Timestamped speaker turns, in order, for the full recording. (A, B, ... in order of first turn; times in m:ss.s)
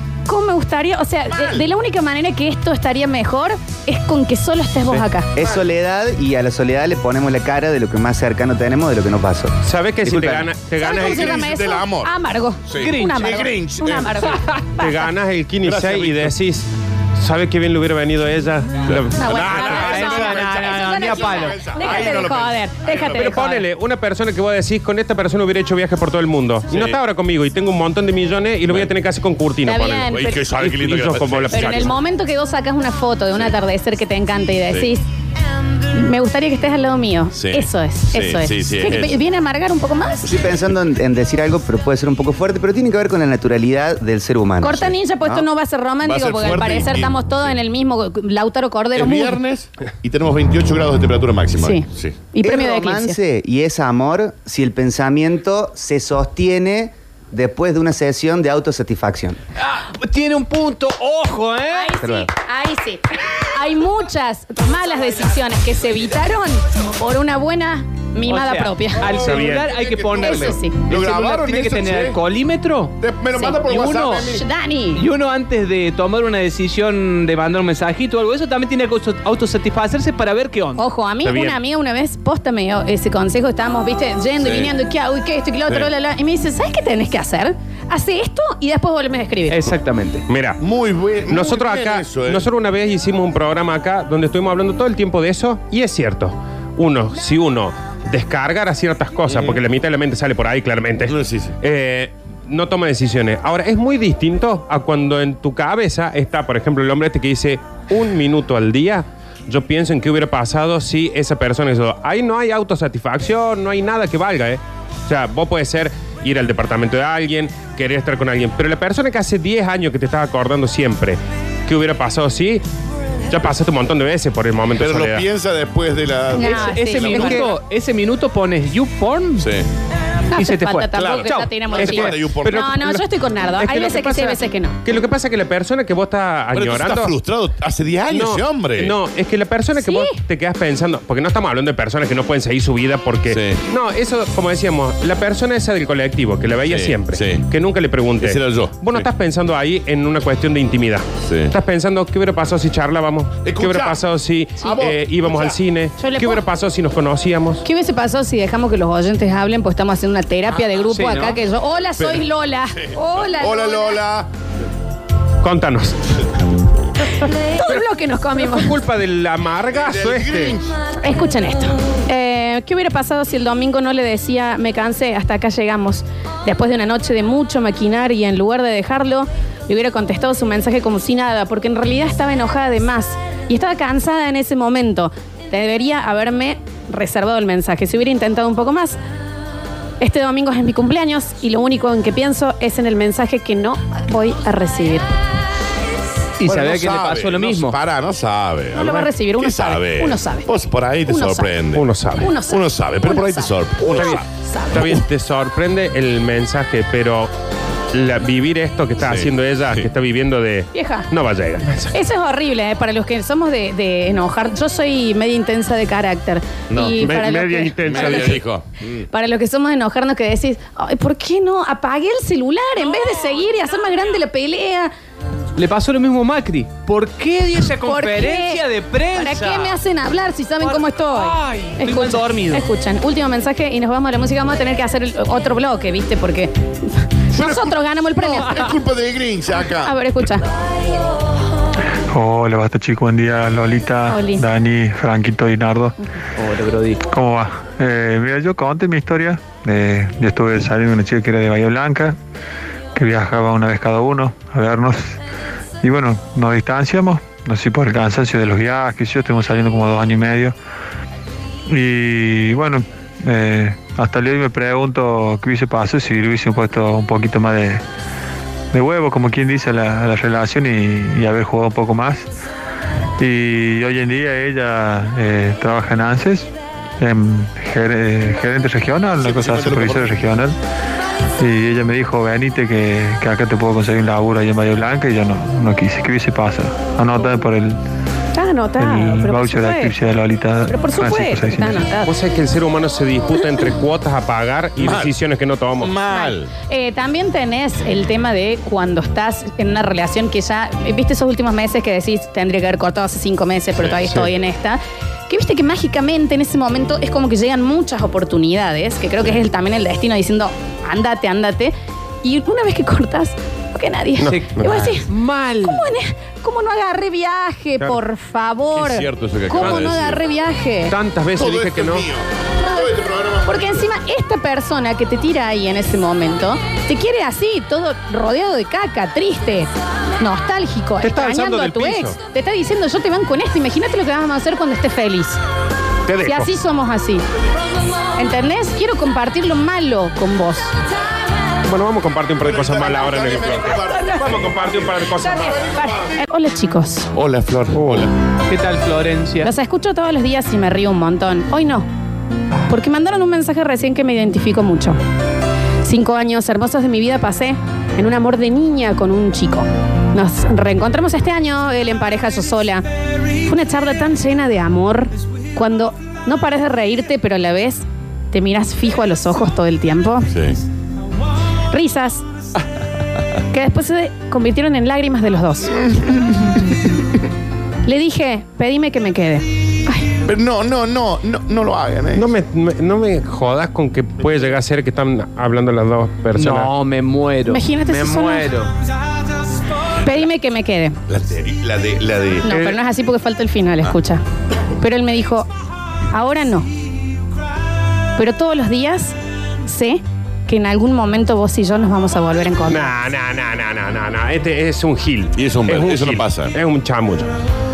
0:00.3-0:05.3 A
0:05.4-0:10.5 B
0:09.6-0:11.4 C
0:10.8-0:15.0 A
0:10.8-0:12.1 D
0:12.7-0:14.3 D
0:12.7-0:13.5 E
0:14.8-0:20.1 C
0:15.6-0:16.3 D
0:18.8-0:23.3 D
0:19.1-0:23.6 A
0:19.6-0:21.7 E
0:23.1-0:31.9 C
0:26.7-0:27.0 D
0:29.6-0:30.4 A
0:30.1-0:32.0 D
0:31.5-0:35.0 A
0:35.9-0:40.3 A
0:37.3-0:39.2 D
0:40.2-0:44.9 B
0:40.3-0:40.6 D
0:44.6-0:49.4 A
0:46.0-0:47.6 D
0:48.9-0:52.2 D
0:51.6-0:53.2 A
0:52.4-0:59.4 B
0:59.6-1:01.9 E
1:01.7-1:09.2 A
1:02.0-1:02.3 B
1:08.2-1:13.0 E
1:09.0-1:12.2 D
1:09.2-1:09.8 C
1:10.2-1:10.8 A
1:13.0-1:14.4 D
1:13.6-1:14.3 E
1:14.2-1:15.0 A
1:14.9-1:20.8 E
1:20.8-1:29.7 A
1:21.2-1:21.6 C
1:24.4-1:24.7 D
1:29.5-1:30.2 E
1:30.3-1:30.6 C
1:30.6-1:32.5 D
1:31.3-2:02.6 C
1:39.3-1:39.6 D
1:41.0-1:41.5 D
2:03.3-2:05.2 C
2:04.8-2:07.5 D
2:06.3-2:07.5 A
2:06.4-2:09.5 E
2:09.4-2:09.7 D
2:10.3-2:14.8 A
2:10.3-2:11.9 E
2:11.0-2:12.7 D
2:11.8-2:13.0 C
2:13.6-2:17.1 C
2:16.5-2:19.0 D
2:18.1-2:37.6 C
2:19.8-2:20.2 A
2:23.3-2:23.6 D
2:26.6-2:27.5 D
2:28.2-2:29.1 D
2:31.2-2:31.5 D
2:33.4-2:34.0 D
2:34.6-2:35.6 D
2:36.0-2:36.4 A
2:37.6-2:44.0 A
2:40.7-2:41.4 E
2:42.0-2:44.3 D
2:45.4-2:46.0 C
2:47.5-2:48.7 A
2:48.4-2:50.6 C
2:49.7-2:50.8 D
2:51.0-3:09.0 A
3:10.0-3:15.0 A
3:16.4-3:17.8 E
3:16.4-3:21.8 D
3:18.7-3:20.5 A
3:21.1-3:21.5 A
3:21.8-3:22.3 C
3:22.2-3:24.9 A
3:22.5-3:24.2 D
3:23.9-3:24.2 C
3:24.7-3:27.3 C
3:27.9-3:31.9 C
3:29.0-3:29.9 D
3:30.7-3:31.1 A
3:31.9-3:38.2 A
3:36.7-3:37.0 D
3:37.0-3:38.4 C
3:37.8-3:39.0 D
3:39.1-3:44.9 A
3:45.6-3:49.8 E
3:47.8-3:58.7 A
3:50.6-3:52.7 E
3:57.3-4:00.0 D
3:59.8-4:00.4 A
4:02.1-4:06.0 F
4:04.1-4:04.4 A
4:06.4-4:07.0 E
4:07.1-4:12.2 F
4:13.0-4:15.2 F
4:15.8-4:20.5 F
4:21.7-4:27.8 F
4:28.7-4:32.3 F
4:33.2-4:36.5 F
4:37.0-4:40.5 F
4:39.1-4:40.2 D
4:41.4-4:47.8 F
4:48.3-4:50.0 A
4:48.8-4:51.8 F
4:50.6-4:52.1 A
4:52.0-4:55.9 C
4:54.8-4:55.1 D
4:55.8-4:56.5 D
4:56.1-5:15.1 A
5:03.8-5:04.2 D
5:14.2-5:15.8 C
5:15.6-5:20.9 A
5:18.7-5:20.2 D
5:19.6-5:19.9 C
5:20.9-5:22.1 C
5:21.4-5:23.9 D
5:22.6-5:22.9 A
5:23.4-5:35.4 A
5:31.0-5:32.2 C
5:36.1-5:36.5 C
5:36.2-5:37.2 A
5:38.2-5:40.8 A
5:41.6-5:45.7 C
5:42.4-5:46.1 D
5:45.7-5:47.1 A
5:47.1-5:48.1 D
5:47.8-5:48.1 C
5:48.5-5:49.5 E
5:49.4-5:51.9 A
5:52.7-5:55.0 A
5:55.8-6:02.8 A
6:03.4-6:10.3 A
6:10.3-6:10.6 D
6:11.7-6:12.2 A
6:13.5-6:15.9 A
6:17.8-6:20.1 A
6:20.2-6:22.3 D
6:22.2-6:26.7 C
6:26.3-6:28.7 E
6:27.5-6:28.5 A
6:30.0-6:31.0 A
6:31.1-6:32.5 D
6:32.4-6:34.2 A
6:32.5-6:32.8 C
6:34.8-6:35.5 A
6:36.1-6:36.7 A
6:38.2-6:39.2 A
6:39.7-6:42.9 A
6:42.7-6:47.3 C
6:45.3-6:46.5 D